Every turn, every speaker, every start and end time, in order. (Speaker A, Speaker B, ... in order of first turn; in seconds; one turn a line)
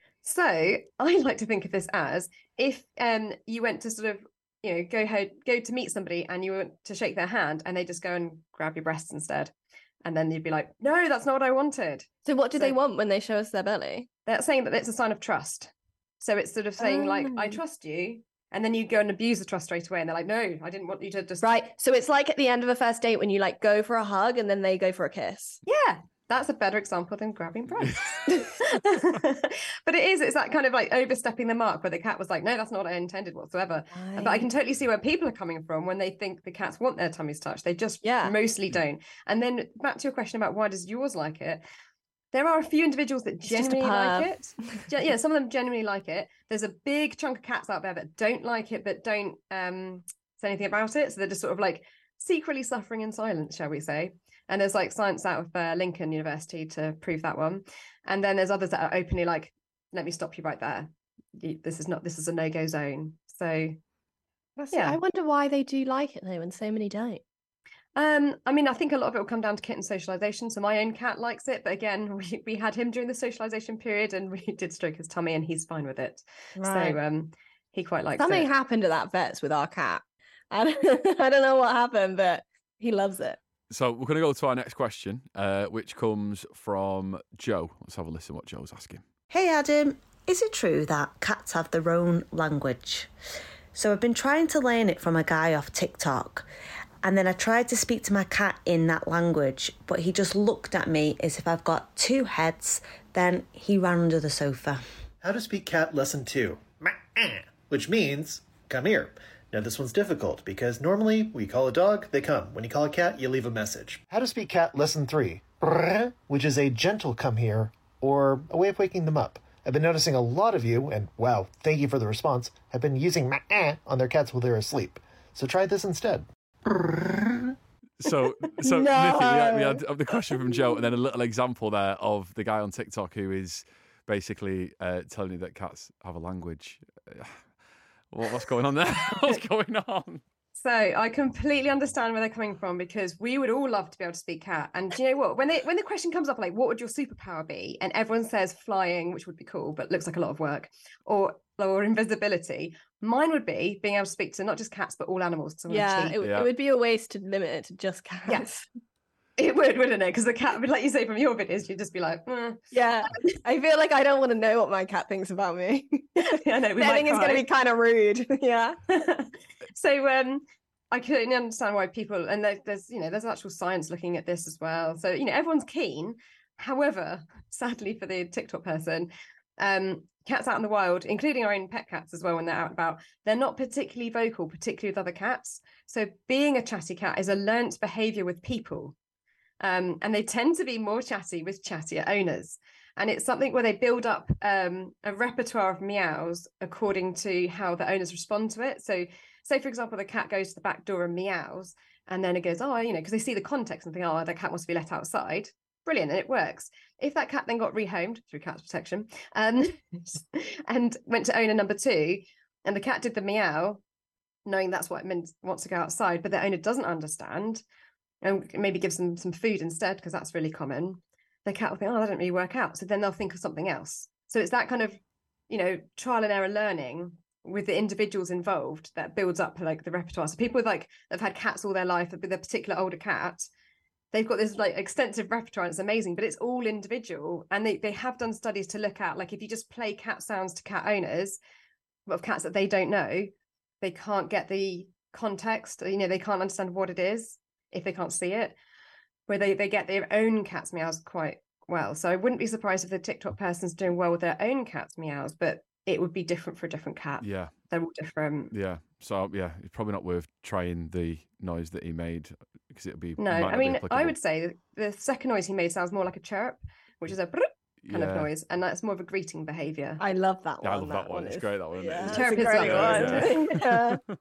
Speaker A: 0.2-9.5
Speaker A: 10.0-12.8
Speaker B: 12.3-14.1
Speaker A: 14.3-21.5
Speaker B: 16.8-17.6
Speaker B: 21.4-25.6
Speaker A: 25.7-41.6
Speaker B: 28.3-28.8
Speaker B: 33.9-34.5
Speaker B: 38.0-38.4
Speaker A: 42.3-63.8
Speaker B: 43.5-44.8
Speaker B: 64.6-67.2
Speaker A: 64.7-65.0
Speaker A: 68.0-78.5
Speaker B: 76.6-77.0
Speaker B: 78.2-83.4
Speaker C: 83.7-89.0
Speaker D: 89.3-93.1
Speaker D: 93.7-96.5
Speaker D: 97.0-104.8
Speaker E: 105.2-127.5
Speaker C: 128.0-137.4
Speaker B: 128.6-129.8
Speaker C: 138.1-140.2
Speaker A: 140.6-156.2
Speaker B: 155.7-158.6
Speaker C: 156.2-156.5
Speaker A: 158.3-158.6
Speaker A: 159.4-162.7
Speaker B: 162.7-168.8
Speaker A: 166.3-167.4
Speaker A: 168.9-188.9
Speaker A: 189.6-213.8
Speaker A: 214.5-217.6
Speaker A: 218.2-225.0
Speaker A: 225.5-233.5
Speaker A: 234.1-241.4
Speaker A: 242.1-248.6
Speaker A: 249.3-258.5
Speaker C: 257.2-257.5
Speaker C: 258.5-264.1
Speaker A: 263.2-270.0
Speaker C: 267.8-268.3
Speaker B: 270.0-274.0
Speaker C: 270.6-273.8
Speaker A: 272.1-273.6